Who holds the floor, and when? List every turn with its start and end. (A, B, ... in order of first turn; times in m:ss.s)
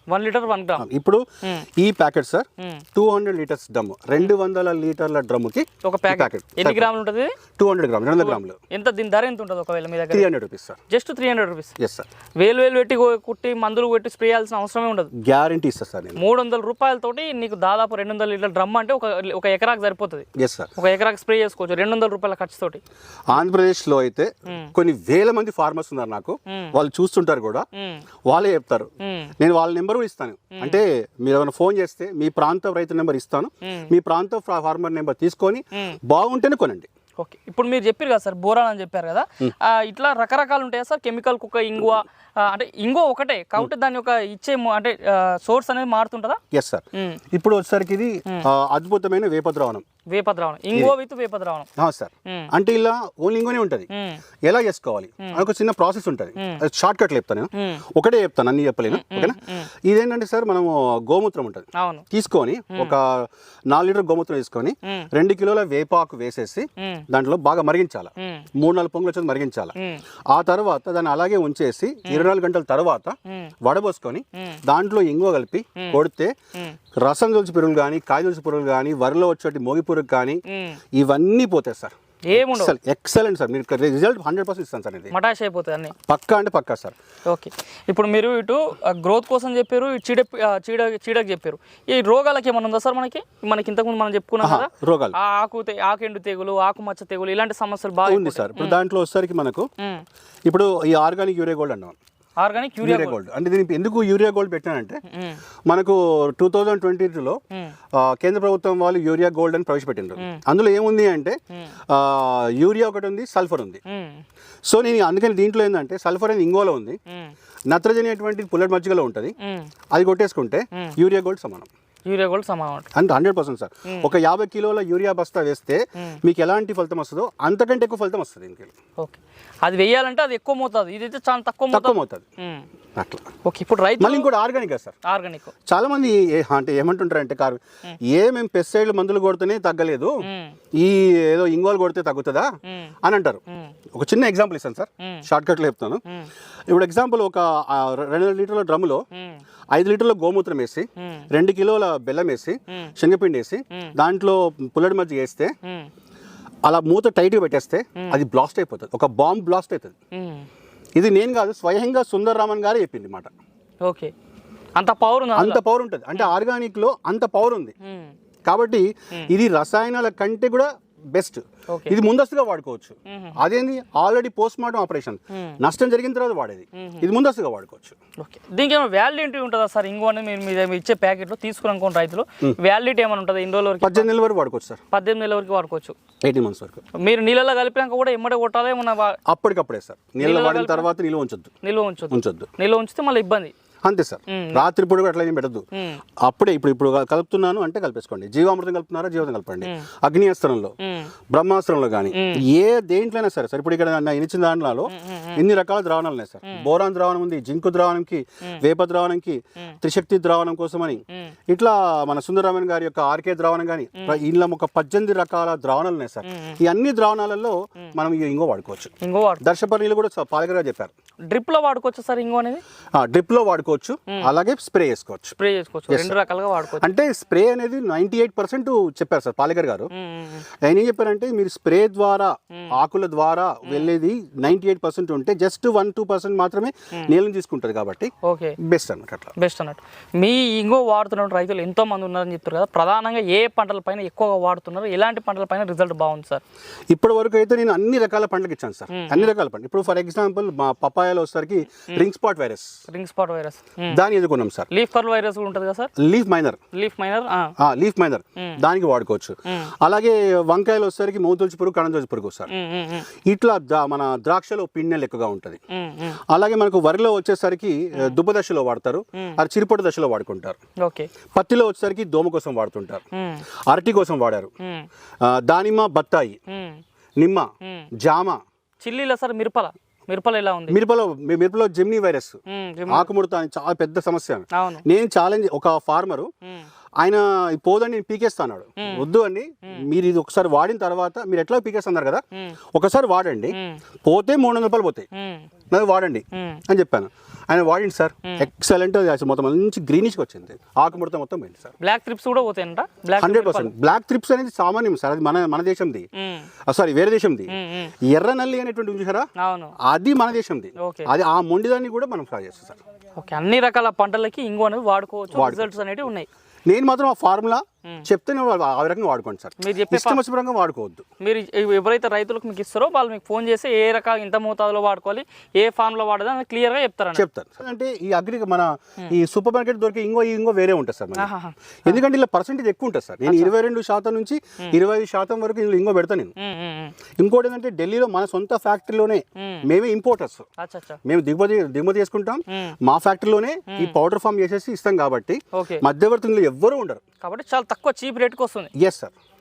0:00.1-0:00.8 A
0:00.8-0:01.2 B
0:01.8-0:06.9 B
0:02.6-0:02.8 A
0:05.8-0:07.4 A
0:07.6-0:08.6 B
0:08.2-0:10.3 A
0:10.1-0:10.8 B
0:10.9-0:11.7 A
0:11.8-0:12.1 B
0:12.4-0:15.1 A
0:15.1-0:16.2 B
0:16.2-0:22.8 A
0:20.4-0:20.7 B
0:23.3-0:27.6 B
0:24.5-0:24.7 A
0:26.5-0:26.7 A
0:27.7-0:28.0 A
0:28.3-0:36.9 B
0:29.0-0:29.3 A
0:30.6-0:30.8 A
0:33.6-0:33.9 A
0:35.7-0:36.0 A
0:37.2-0:46.4 A
0:46.5-0:49.8 B
0:46.9-0:47.2 A
0:50.1-0:51.7 A
0:51.8-0:53.9 B
0:52.2-0:52.5 A
0:53.9-0:54.2 A
0:54.5-1:09.7 B
0:57.5-0:57.8 A
0:58.9-0:59.7 A
1:01.8-1:02.0 A
1:06.8-1:07.0 A
1:08.2-1:08.5 A
1:09.8-1:10.0 A
1:10.3-1:16.3 B
1:13.3-1:13.5 A
1:14.3-1:14.6 A
1:17.0-1:20.4 B
1:20.5-1:20.8 A
1:20.9-1:25.1 B
1:22.3-1:22.7 A
1:25.1-1:25.9 A
1:26.0-1:27.0 B
1:27.3-1:38.8 A
1:34.4-1:35.1 B
1:38.0-1:39.7 B
1:39.8-1:40.0 A
1:40.5-1:42.0 B
1:42.4-1:43.2 A
1:42.8-1:45.0 B
1:45.1-1:45.4 A
1:45.7-1:47.4 B
1:48.0-1:51.4 B
1:51.9-1:53.8 B
1:53.8-1:54.2 A
1:54.7-1:57.0 B
1:57.1-1:57.3 A
1:57.7-1:59.3 B
1:59.4-1:59.7 A
1:59.9-2:01.7 B
2:02.1-2:02.9 A
2:02.9-2:08.7 B
2:09.0-2:12.6 A
2:11.7-2:12.2 B
2:13.0-2:13.3 B
2:13.4-2:14.3 A
2:14.0-2:15.0 B
2:15.0-2:15.5 A
2:15.7-2:20.2 B
2:20.2-2:20.6 A
2:20.8-2:23.4 B
2:22.6-2:22.9 A
2:23.9-2:26.0 B
2:26.7-2:29.0 B
2:29.1-2:29.4 A
2:29.7-2:35.5 B
2:31.0-2:31.2 A
2:35.6-2:35.9 A
2:36.7-2:40.0 B
2:40.1-2:40.5 A
2:41.0-2:43.3 B
2:43.8-2:44.1 A
2:44.8-2:45.6 A
2:45.4-2:47.7 B
2:47.8-2:48.1 A
2:48.5-2:58.0 B
2:51.7-2:52.0 A
2:53.1-2:53.4 A
2:55.3-2:55.6 A
2:56.7-2:57.1 A
2:58.2-3:04.1 A
3:03.8-3:04.8 B
3:04.9-3:06.0 A
3:06.2-3:06.8 B
3:06.9-3:09.2 A
3:09.3-3:11.5 B
3:10.2-3:10.9 A
3:11.6-3:13.5 A
3:12.1-3:12.5 B
3:13.8-3:15.6 B
3:14.3-3:14.6 A
3:15.7-3:16.0 A
3:16.2-3:20.7 B
3:20.8-3:21.1 A
3:21.3-3:40.9 B
3:22.1-3:22.4 A
3:24.9-3:25.4 A
3:36.2-3:36.6 A
3:39.0-3:39.4 A
3:41.3-3:42.6 A
3:43.0-3:45.4 B
3:45.4-3:46.9 A
3:45.9-3:46.1 B
3:46.8-3:49.9 B
3:49.9-3:50.4 A
3:50.6-3:59.3 B
3:53.6-3:53.9 A
3:58.2-3:58.6 A
3:59.4-4:06.4 A
4:06.9-4:12.8 B
4:08.9-4:09.3 A
4:12.9-4:14.0 A
4:13.9-4:14.7 B
4:14.7-4:15.9 A
4:16.0-4:16.6 B
4:16.7-4:17.5 A
4:17.6-4:22.5 B
4:19.5-4:19.7 A
4:22.5-4:23.1 A
4:23.3-4:25.6 B
4:25.7-4:26.2 A
4:26.3-4:30.6 B
4:30.8-4:31.1 A
4:31.4-4:33.0 B
4:33.1-4:33.4 A
4:33.7-4:34.5 B
4:34.6-4:34.9 A
4:35.2-4:36.4 B
4:36.5-4:36.8 A
4:37.2-4:38.4 B
4:37.6-4:37.9 A
4:38.8-4:40.8 A
4:40.7-4:46.3 B
4:42.5-4:43.1 A
4:44.5-4:44.8 A
4:47.0-4:55.1 B
4:48.8-4:49.0 A
4:53.5-4:53.8 A
4:55.1-4:55.5 A
4:55.7-5:01.7 B
4:56.3-4:56.6 A
5:01.8-5:03.7 A
5:03.2-5:06.1 B
5:06.2-5:06.5 A
5:06.7-5:09.3 B
5:07.5-5:07.9 A
5:09.4-5:09.7 A
5:09.8-5:12.8 B
5:10.8-5:11.1 A
5:13.2-5:16.3 A
5:15.3-5:15.7 B
5:16.7-5:21.0 B
5:19.6-5:20.2 A
5:21.2-5:27.2 A
5:27.1-5:31.3 B
5:31.2-5:32.0 A
5:31.8-5:36.3 B
5:33.2-5:33.5 A
5:36.4-5:36.9 A
5:37.2-5:40.4 B
5:39.4-5:39.6 A
5:40.6-5:41.0 A
5:41.0-5:47.0 B
5:42.5-5:42.8 A
5:45.5-5:45.8 A
5:47.2-5:48.7 A
5:48.8-5:49.1 B